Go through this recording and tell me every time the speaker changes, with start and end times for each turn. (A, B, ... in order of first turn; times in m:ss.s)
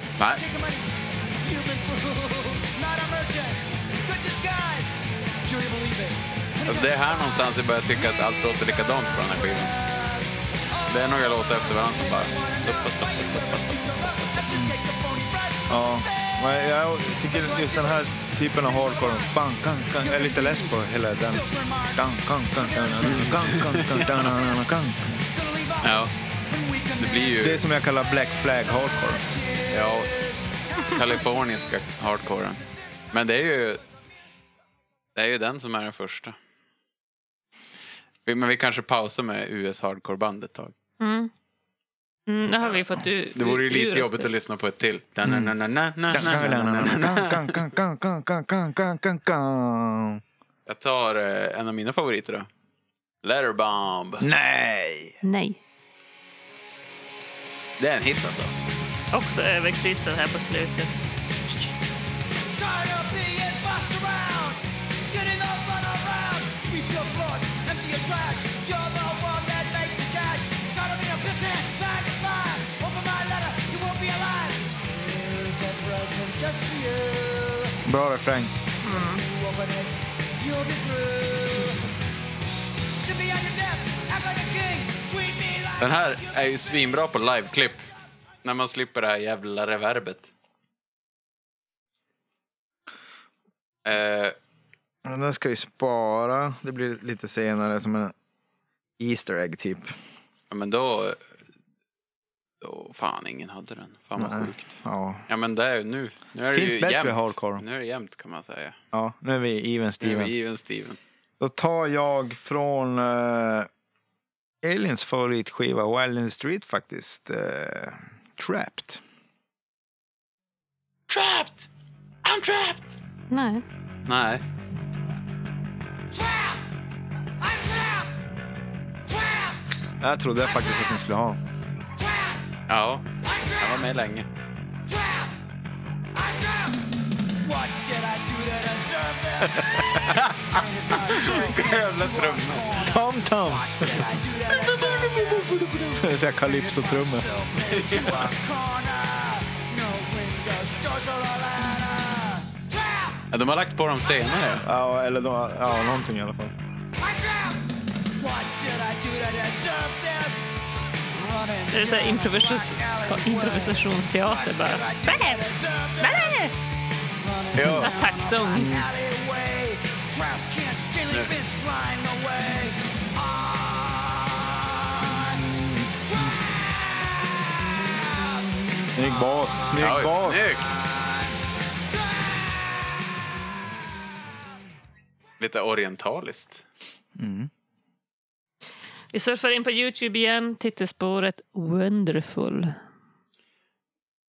0:00.2-0:00.4 A
0:00.2-0:07.4 B
0:06.6-0:09.8 A
0:08.0-0:16.5 B
0:10.9-0:14.0 A
0:14.5-0:14.8 C
0:15.7-0:25.2 C
0:17.3-0:19.4 B
0:20.0-0:23.8 B
0:23.0-0:24.3 A
0:25.3-0:27.6 B
0:25.8-0:26.1 A
0:27.0-0:27.6 A
0:27.4-0:29.3 C
0:28.8-0:31.3 B
0:29.7-0:30.1 A
0:30.9-0:33.8 A
0:35.2-0:36.4 A
0:38.3-0:40.8 A
0:41.0-0:41.3 D
0:42.3-0:44.3 D
0:43.4-0:47.6 A
0:45.2-0:45.5 C
0:46.1-0:50.2 C
0:50.7-0:52.5 A
0:53.2-0:54.3 A
0:54.2-0:55.2 C
0:55.2-0:55.6 D
0:57.8-0:58.5 A
0:59.1-1:00.9 D
1:02.6-1:17.8 B
1:17.8-1:18.5 C
1:18.8-1:19.2 D
1:18.8-1:21.8 B
1:23.0-1:26.9 B
1:25.8-1:27.9 A
1:28.4-1:30.3 A
1:33.8-1:34.4 A
1:35.0-1:38.1 C
1:39.0-1:39.9 C
1:40.5-1:41.2 A
1:42.6-1:48.8 A
1:44.2-1:45.2 C
1:46.5-1:47.6 C
1:48.9-1:50.3 C
1:50.0-1:51.0 A
1:51.4-1:53.7 C
1:54.6-1:59.0 C
2:01.1-2:01.7 A
2:02.2-2:03.0 A
2:03.3-2:03.6 D
2:04.1-2:04.4 A
2:06.1-2:06.6 B
2:07.4-2:08.1 B
2:09.1-2:09.6 B
2:10.0-2:11.4 C
2:12.0-2:12.4 B
2:12.7-2:14.3 A
2:13.3-2:13.8 B
2:14.9-2:15.3 B
2:16.1-2:16.9 B
2:17.4-2:33.3 B
2:20.0-2:22.8 A
2:22.8-2:24.1 C
2:24.5-2:26.0 A
2:26.0-2:27.3 C
2:27.7-2:28.3 A
2:33.3-2:34.7 A
2:34.6-2:36.6 C
2:37.0-2:46.6 B
2:41.7-2:45.4 D
2:46.0-2:46.5 D
2:47.2-2:58.9 B
2:47.6-2:47.9 A
2:47.7-2:48.7 D
2:48.6-2:48.9 C
2:59.0-3:00.5 C
2:59.8-3:00.7 A
3:00.7-3:01.3 B
3:01.9-3:03.0 B
3:05.4-3:06.6 A
3:07.2-3:07.5 C
3:09.1-3:12.8 D